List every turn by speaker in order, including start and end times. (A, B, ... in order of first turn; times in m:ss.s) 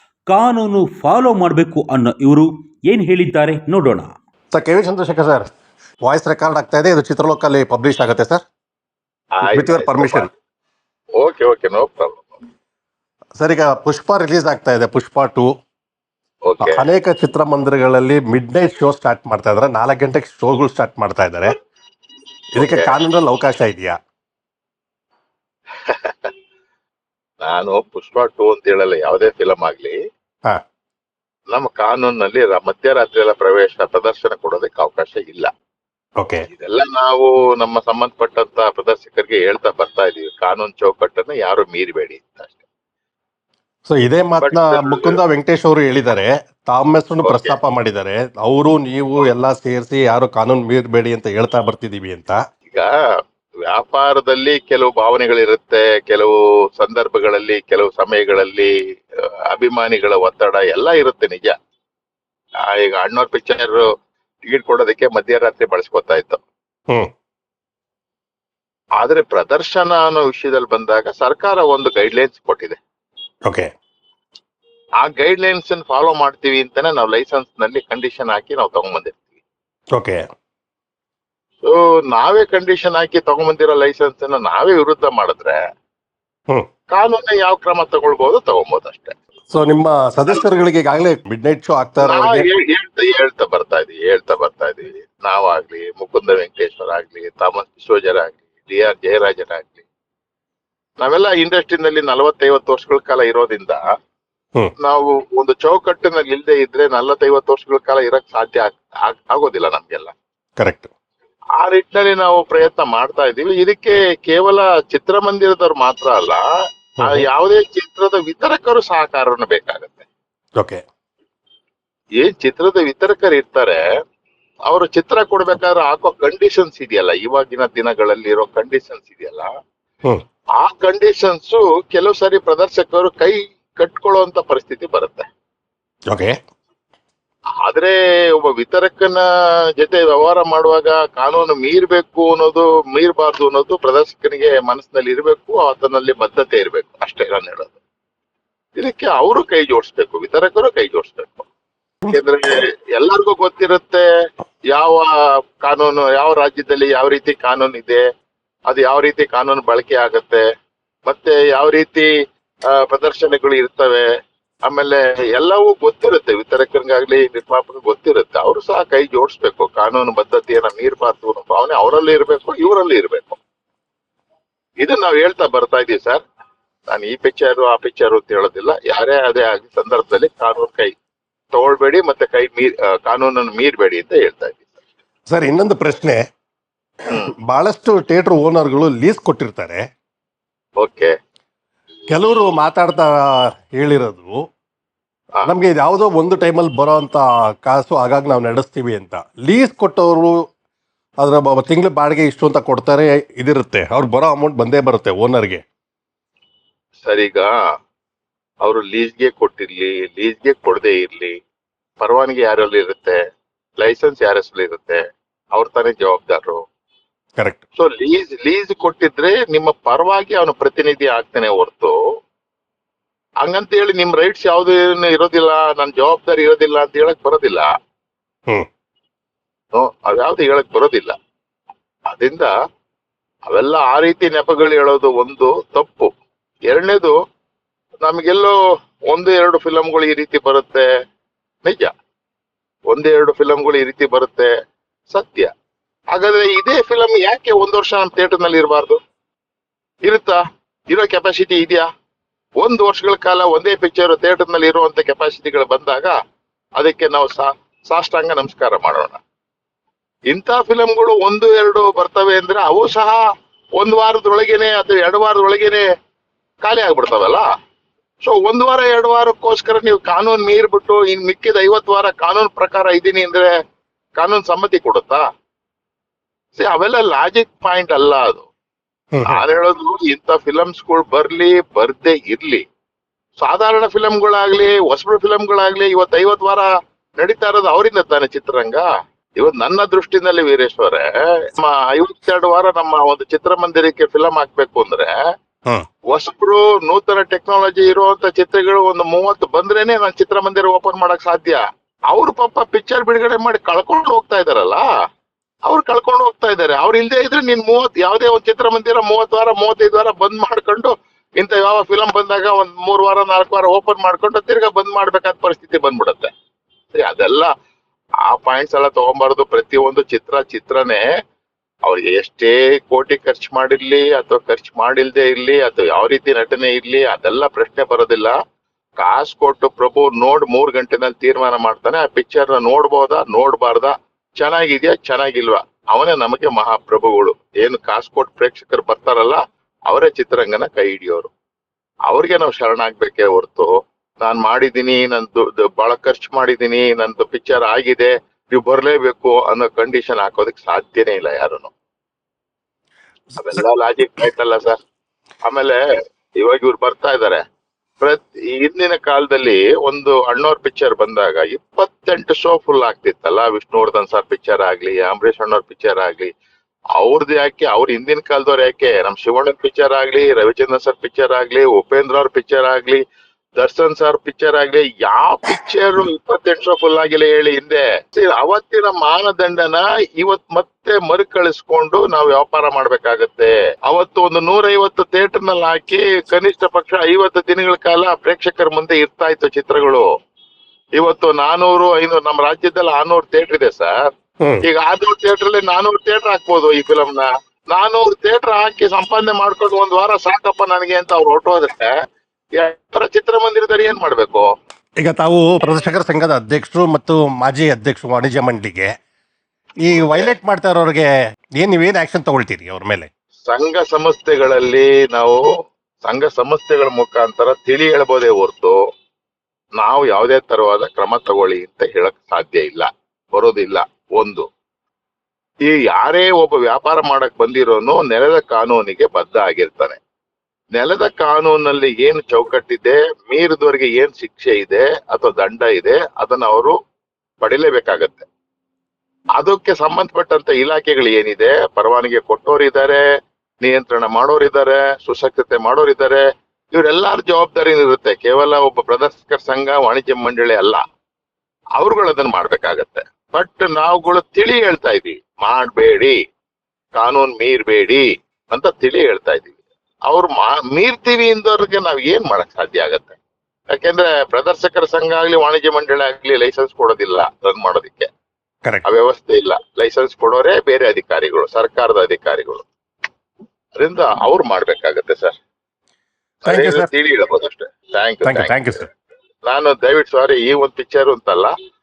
0:00.3-0:04.1 A
0:04.5-0:05.4 B
0:06.0-0:08.4 B
0:09.3-0:10.3 C
0:09.4-0:10.3 B
0:11.2-0:12.4 C
0:13.4-0:15.5 B
0:16.4-0:16.9 C
0:16.6-0:21.5 B
0:22.6-0:23.9 B
0:22.6-0:23.0 C
0:25.8-0:26.3 C
0:27.4-0:30.0 C
0:31.5-0:35.5 C
0:36.5-0:42.6 C
0:43.9-0:52.4 B
0:44.4-0:45.2 C
0:47.2-0:47.6 C
0:53.7-0:58.7 C
0:59.5-1:01.5 C
1:02.7-1:03.8 C
1:04.5-1:06.4 C
1:09.0-1:12.8 C
1:15.0-1:19.2 C
1:21.6-1:25.6 C
1:26.9-1:29.1 C
1:29.5-1:32.5 B
1:32.0-1:39.8 C
1:41.0-1:43.8 C
1:44.8-1:50.1 C
1:50.6-1:50.9 B
1:51.6-1:56.4 C
1:57.0-2:00.1 C
2:02.2-2:03.8 C
2:04.7-2:09.5 C
2:10.6-2:15.2 C
2:17.6-2:19.2 C
2:19.8-2:27.8 C
2:28.8-2:31.4 C
2:32.1-2:34.0 C
2:34.7-2:35.1 C
2:35.6-2:38.0 C
2:38.7-2:40.4 C
2:41.0-2:42.1 C
2:42.7-2:44.0 C
2:44.6-2:53.4 C
2:54.8-2:56.2 C
2:56.9-3:00.9 C
3:01.5-3:04.8 C
3:05.3-3:06.2 B
3:07.1-3:07.3 C
3:07.5-3:09.8 B
3:10.8-3:11.1 C
3:12.1-3:14.3 B
3:15.4-3:20.4 B
3:21.2-3:25.6 B
3:27.0-3:27.5 C
3:28.6-3:31.3 C
3:32.0-3:33.2 C
3:33.8-3:35.0 C
3:35.5-3:36.6 C
3:37.8-3:41.9 C
3:43.4-3:47.7 C
3:49.7-3:51.1 C
3:52.1-3:52.5 C
3:53.5-3:56.2 C
3:56.7-3:57.1 C
3:58.0-3:58.6 C
3:59.1-4:00.8 C
4:01.6-4:01.9 C
4:02.9-4:04.5 C
4:05.1-4:05.5 C
4:06.1-4:09.0 C
4:10.0-4:10.4 C
4:10.9-4:11.8 C
4:12.6-4:16.1 C
4:16.8-4:19.2 C
4:20.3-4:23.2 C
4:23.8-4:25.8 C
4:26.6-4:27.4 C
4:28.2-4:33.5 C
4:34.2-4:35.2 C
4:36.5-4:38.5 C
4:39.1-4:39.4 B
4:39.3-4:42.6 C
4:43.4-4:46.7 C
4:47.2-4:48.8 C
4:49.4-4:55.1 C
4:56.1-5:01.6 C
5:02.1-5:04.8 C
5:05.6-5:16.3 C
5:16.9-5:17.5 C
5:18.3-5:21.0 C
5:21.8-5:28.3 C
5:29.0-5:41.3 C
5:42.1-5:43.7 C
5:44.2-5:51.7 C
5:53.4-5:54.8 C
5:55.4-5:55.8 C
5:56.4-5:57.4 C
5:58.0-6:06.3 C
6:07.0-6:13.0 C
6:13.6-6:30.1 C
6:31.0-6:34.1 C
6:34.6-6:41.9 C
6:42.5-6:44.5 C
6:45.0-6:48.9 B
6:49.8-6:51.1 B
6:49.9-6:50.3 C
6:51.6-6:53.1 B
6:53.5-6:55.4 C
6:56.0-6:58.8 C
6:59.8-7:04.4 C
7:05.6-7:10.0 C
7:10.7-7:16.7 C
7:17.4-7:18.2 C
7:19.4-7:23.0 C
7:23.6-7:30.8 C
7:31.8-7:36.1 C
7:37.0-7:43.2 C
7:43.7-7:48.1 C
7:48.8-7:52.6 C
7:53.8-7:55.4 C
7:56.4-7:58.8 C
7:56.4-7:56.9 B
7:58.2-7:58.8 B
7:59.4-8:01.5 C